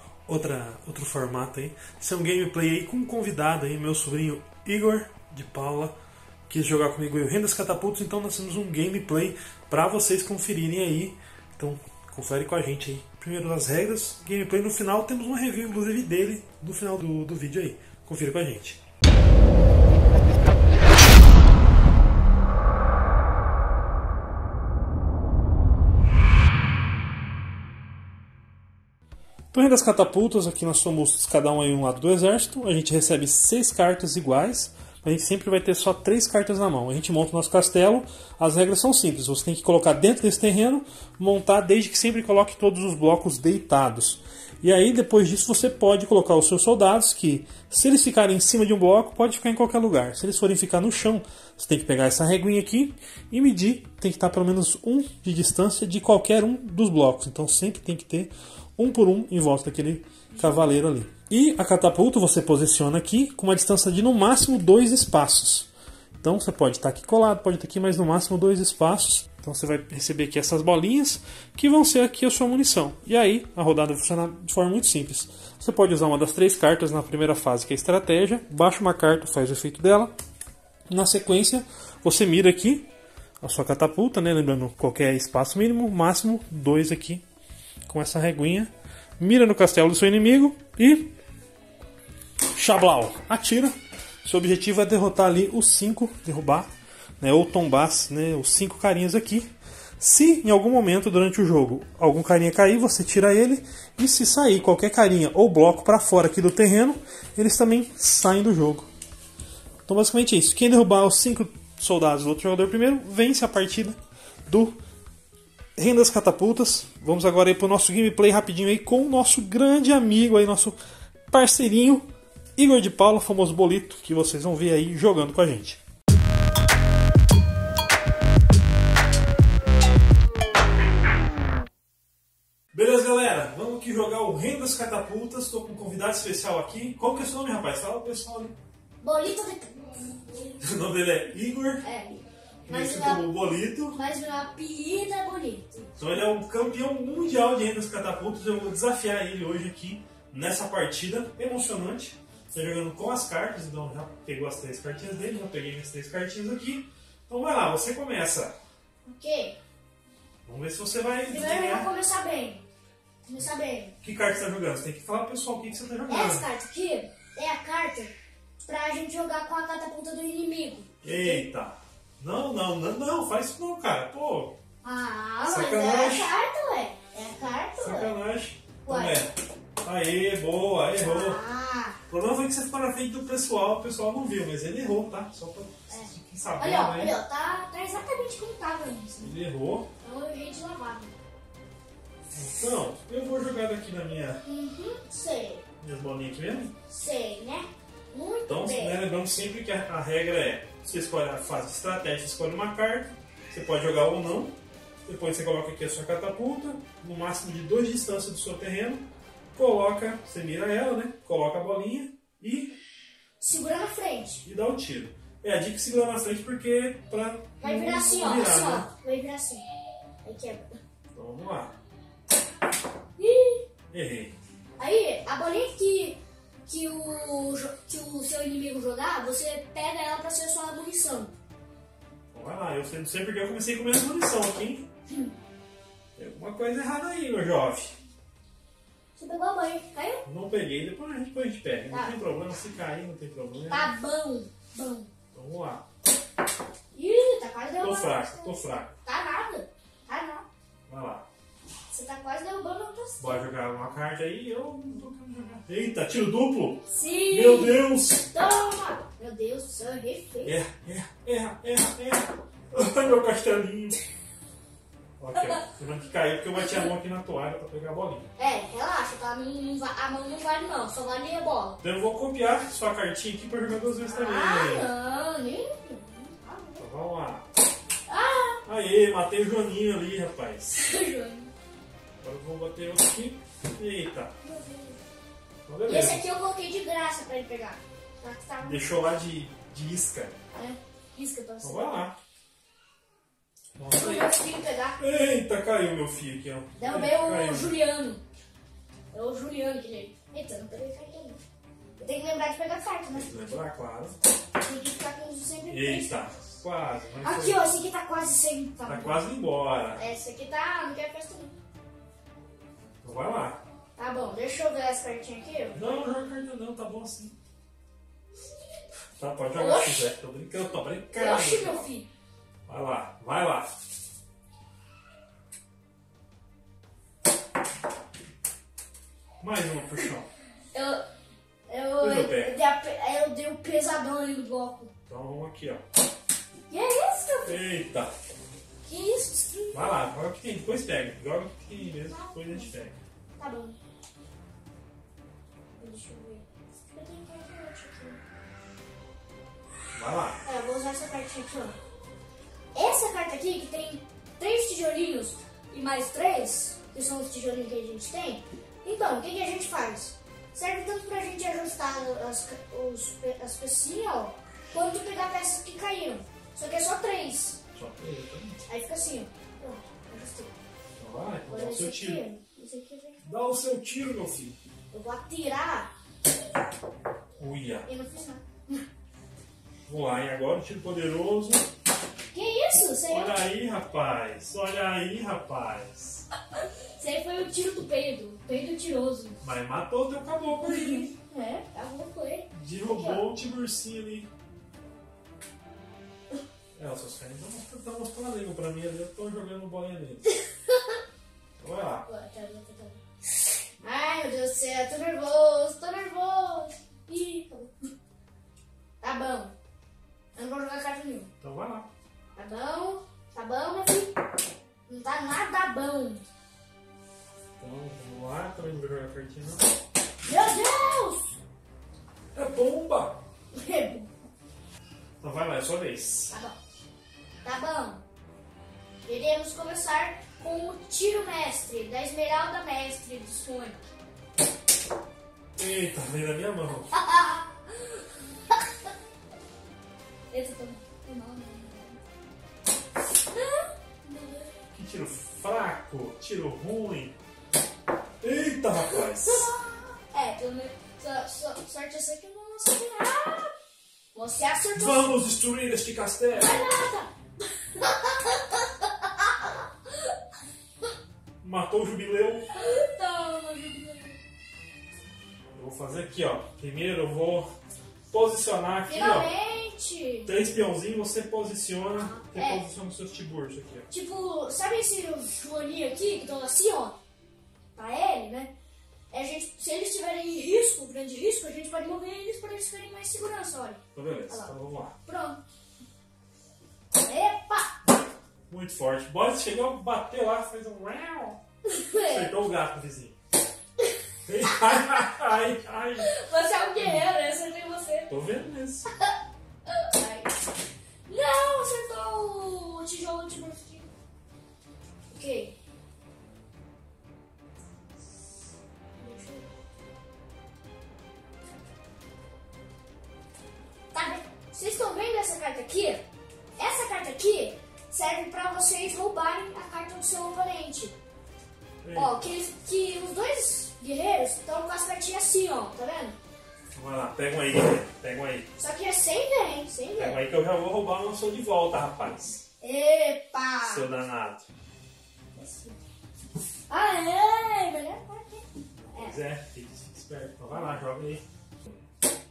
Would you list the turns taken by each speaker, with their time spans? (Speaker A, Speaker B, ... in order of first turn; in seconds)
Speaker A: 0.3-5.9, 6.5-18.8, 29.5-65.7, 66.2-80.1, 80.9-82.9, 83.4-87.2, 87.9-91.1, 92.5-96.7, 97.2-99.5, 100.0-108.9, 109.9-114.8, 115.8-120.8, 121.3-125.8, 132.7-138.6, 140.6-141.8, 142.7-144.0, 146.0-158.5, 160.4-161.9, 164.0-166.4, 171.0-174.6, 175.4-176.3, 177.8-179.3, 179.8-181.4, 182.1-187.1, 189.2-189.9, 192.3-194.4, 195.8-196.7, 198.5-204.5, 205.1-212.8, 214.4-218.9, 221.1-221.7, 223.9-224.3, 232.3-234.9, 236.2-237.9, 240.2-243.9, 245.3-245.8, 247.8-248.9, 250.9-251.2, 253.2-258.3, 260.4-264.0, 265.2-268.3, 271.8-274.9, 276.8-277.4, 278.6-280.8, 282.2-284.3, 285.7-286.2, 288.6-290.4, 291.6-292.1, 293.8-294.4, 295.0-297.7, 303.1-304.1, 305.7-307.7, 308.9-310.0, 313.0-313.6, 315.7-317.4, 319.2-321.9, 322.7-323.7, 329.4-330.3, 332.0-332.6, 335.1-335.8, 337.4-338.1, 339.7-343.0, 349.9-350.4, 367.7-368.6, 371.0-372.2, 373.2-374.6, 377.4-377.9, 379.9-381.7, 383.1-386.2, 389.4-391.1, 392.5-394.3, 396.8-400.4, 401.6-402.1, 411.4-411.9, 417.6-419.7, 422.3-423.2, 425.2-426.4, 435.6-436.9, 444.7-447.1, 448.2-449.5, 454.7-456.7, 461.4-462.5, 465.5-467.5, 468.1-469.3, 470.2-473.9, 483.9-484.9, 488.5-491.4, 492.0-493.2, 494.2-496.1, 498.1-498.9, 521.8-522.2, 526.7-528.5, 530.0-532.4, 533.6-534.5, 538.8-541.8
Speaker B: 139.0-140.6, 141.8-143.3, 143.9-145.9, 159.1-159.6, 161.3-162.6, 163.2-163.9, 166.1-168.1, 168.6-171.4, 174.8-178.1, 178.8-179.2, 181.0-182.0, 185.9-189.3, 190.0-191.1, 194.4-195.6, 196.9-199.0, 213.4-214.4, 217.6-219.7, 220.2-220.8, 223.2-223.6, 224.8-231.3, 239.2-240.2, 241.9-242.2, 243.7-245.1, 246.9-250.4, 251.9-253.4, 256.9-260.6, 268.4-271.8, 274.1-276.9, 278.1-278.6, 280.7-281.5, 284.4-285.0, 285.9-288.8, 290.5-291.9, 293.9-295.0, 296.8-298.2, 299.1-301.4, 302.0-303.3, 304.6-306.3, 307.2-309.2, 309.9-311.5, 313.9-315.9, 319.5-320.1, 321.1-322.1, 330.7-331.0, 331.7-334.9, 336.7-337.6, 338.8-340.1, 341.8-342.7, 343.4-343.8, 345.8-348.2, 350.4-351.8, 352.7-367.6, 368.7-370.6, 371.5-373.2, 374.9-375.9, 377.8-378.8, 382.3-383.4, 387.0-389.4, 390.6-393.2, 402.0-403.0, 403.8-407.8, 409.0-409.5, 410.3-411.3, 412.3-414.1, 414.9-416.2, 420.2-421.4, 423.5-424.1, 426.3-426.6, 427.4-428.0, 429.0-433.9, 436.9-438.6, 440.3-442.0, 443.3-444.5, 448.8-453.5, 454.1-455.1, 456.3-457.1, 457.7-459.5, 462.5-464.2, 468.9-470.3, 471.9-472.6, 473.9-477.0, 477.7-478.5, 479.1-484.5, 485.1-485.4, 487.0-487.7, 491.6-492.3, 494.5-494.8, 496.0-498.1, 499.7-500.4, 501.1-503.9, 505.1-505.6, 509.0-509.5, 513.9-516.0, 516.6-521.0, 521.9-526.2, 528.6-530.2, 532.6-533.9, 535.3-535.8, 536.7-539.2